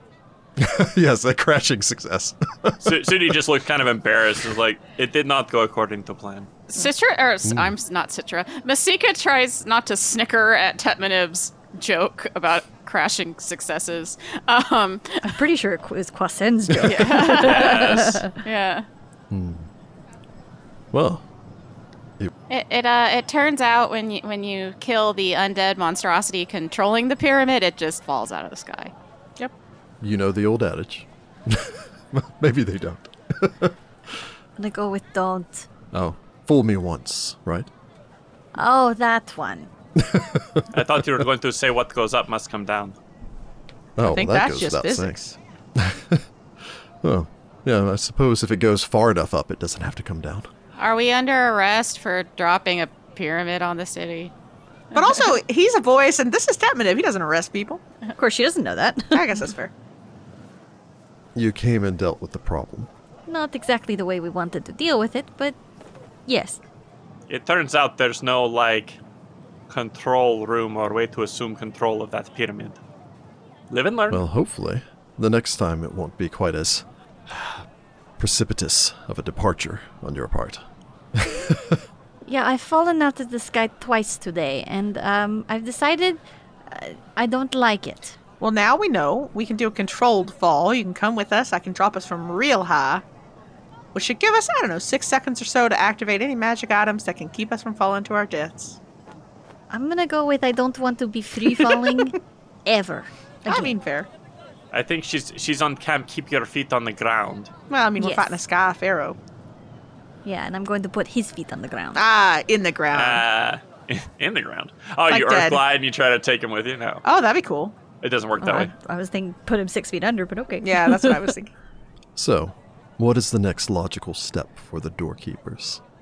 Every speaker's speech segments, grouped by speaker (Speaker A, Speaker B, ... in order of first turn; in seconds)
Speaker A: 0.6-3.3, 7.5-7.7, 16.7-17.0, 19.3-19.7, 20.9-21.2, 30.0-33.7, 35.9-37.7, 40.0-40.7, 44.0-45.1, 45.8-46.2, 47.0-50.5, 61.3-62.9, 74.1-77.6, 78.2-80.6, 81.1-81.8, 122.2-125.8
Speaker B: 2.8-6.5, 17.3-18.2, 40.7-42.9, 67.3-69.0, 69.7-72.8, 73.7-74.2, 104.7-107.5, 112.9-117.0, 118.0-118.7
Speaker C: 6.7-15.4, 16.8-18.9, 22.5-28.9, 50.8-54.3
Speaker D: 15.2-18.4, 34.6-35.6, 38.5-39.7, 58.2-59.4, 63.3-65.5, 66.3-66.6, 82.2-88.2, 99.7-103.8, 108.0-108.4, 110.2-112.0, 118.5-121.3
Speaker E: 44.0-45.4, 54.9-57.8, 59.1-59.7, 88.4-93.0, 93.9-98.8, 103.4-104.1, 107.7-109.2, 111.9-113.2, 115.1-115.6, 117.0-117.8, 120.6-121.5